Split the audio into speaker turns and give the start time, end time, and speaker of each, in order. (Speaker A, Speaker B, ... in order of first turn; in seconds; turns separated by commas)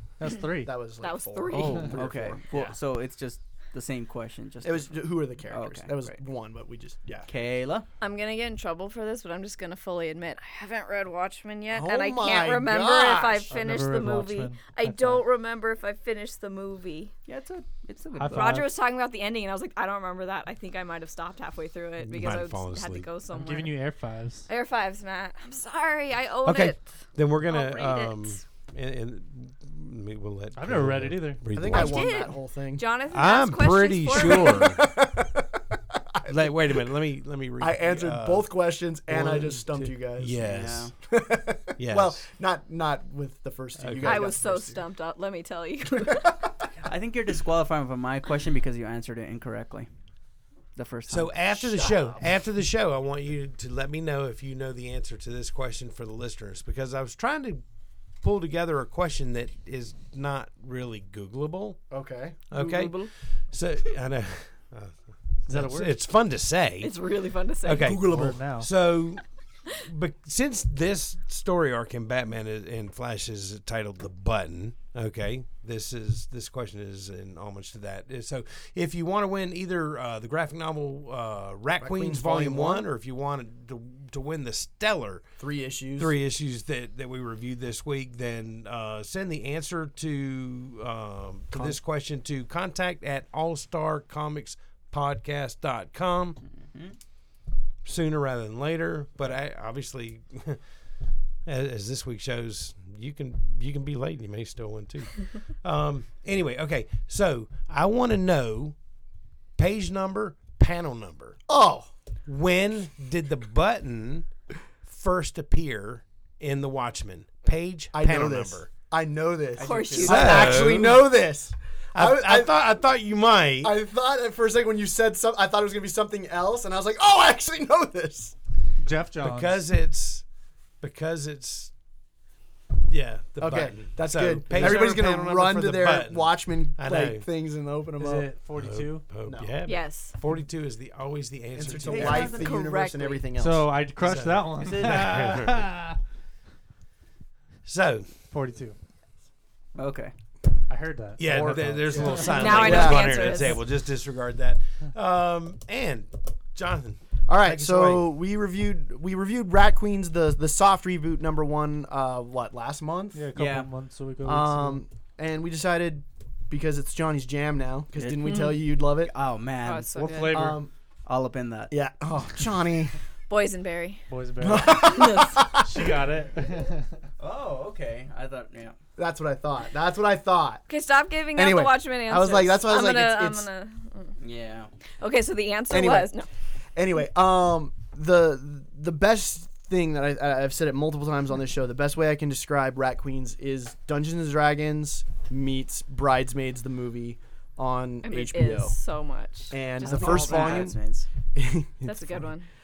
Speaker A: 0.2-0.7, Speaker B: 0.6-2.8, Speaker C: 1.0-2.0, Speaker D: 1.5-6.1, Speaker B: 4.6-7.3, Speaker D: 7.2-7.9, Speaker C: 8.0-17.1, Speaker B: 11.7-13.6, Speaker A: 13.5-15.2, Speaker D: 17.3-18.6, Speaker A: 18.2-18.7, Speaker C: 18.3-23.8, Speaker E: 22.0-23.1, Speaker A: 23.3-24.5, Speaker C: 24.5-26.8, Speaker E: 26.4-32.2, Speaker C: 27.5-28.4, Speaker A: 30.6-31.5, Speaker B: 31.5-32.9, Speaker C: 31.7-34.8, Speaker E: 33.1-34.8, Speaker B: 34.1-36.8, Speaker E: 36.2-38.5, Speaker B: 37.6-40.4, Speaker E: 39.1-40.9, Speaker D: 40.4-40.9, Speaker B: 41.0-44.8, Speaker E: 41.8-42.2, Speaker E: 43.8-44.3, Speaker C: 44.0-46.4, Speaker B: 45.9-46.7, Speaker D: 46.8-49.9, Speaker D: 50.8-51.3, Speaker E: 51.1-57.6, Speaker B: 51.5-52.2, Speaker E: 58.2-61.8, Speaker B: 61.9-62.4, Speaker E: 62.5-67.0, Speaker C: 62.5-63.1, Speaker A: 65.5-65.9, Speaker C: 66.8-68.0, Speaker E: 67.6-85.2, Speaker B: 67.7-68.4, Speaker A: 68.0-68.7, Speaker B: 81.8-82.9, Speaker B: 85.4-86.2, Speaker E: 86.0-96.4, Speaker B: 91.5-91.8, Speaker D: 96.7-97.0, Speaker E: 97.8-100.6, Speaker E: 101.5-108.7, Speaker E: 109.6-111.4, Speaker B: 111.5-111.9, Speaker E: 112.3-114.3, Speaker E: 114.8-118.7, Speaker B: 117.9-122.6, Speaker D: 119.5-120.6, Speaker C: 119.6-120.5, Speaker E: 120.0-121.1, Speaker E: 121.9-123.7, Speaker B: 123.6-128.3, Speaker A: 128.8-129.6, Speaker E: 129.2-130.2, Speaker E: 130.8-131.7, Speaker E: 132.9-137.3, Speaker B: 133.4-138.3, Speaker A: 138.0-139.1, Speaker E: 138.5-142.4, Speaker B: 139.2-139.6, Speaker C: 139.6-140.2, Speaker B: 141.5-143.7, Speaker D: 141.9-142.6, Speaker C: 141.9-143.3, Speaker A: 143.3-146.0, Speaker E: 144.0-145.7, Speaker D: 144.5-145.3, Speaker E: 147.6-148.2, Speaker A: 148.3-148.8, Speaker D: 149.8-150.1, Speaker A: 150.7-152.8, Speaker E: 151.2-158.1, Speaker B: 151.2-153.4, Speaker C: 152.1-153.6, Speaker B: 157.3-163.3, Speaker A: 163.1-164.8, Speaker D: 163.3-163.7, Speaker B: 164.2-169.1, Speaker D: 167.9-171.7, Speaker C: 168.3-168.5, Speaker C: 169.6-170.4, Speaker A: 170.0-170.6, Speaker B: 170.3-170.7, Speaker B: 171.7-172.9, Speaker C: 173.3-175.4, Speaker A: 174.1-174.9, Speaker B: 174.4-175.9, Speaker A: 175.6-176.9, Speaker D: 177.2-178.8, Speaker B: 179.0-180.6, Speaker C: 180.7-184.1, Speaker B: 181.3-183.5, Speaker D: 184.2-184.7, Speaker C: 185.0-186.3, Speaker B: 185.7-186.2, Speaker B: 186.8-198.8, Speaker C: 198.0-200.7, Speaker B: 199.5-200.8, Speaker D: 199.8-201.1, Speaker B: 201.3-202.2, Speaker C: 201.8-202.5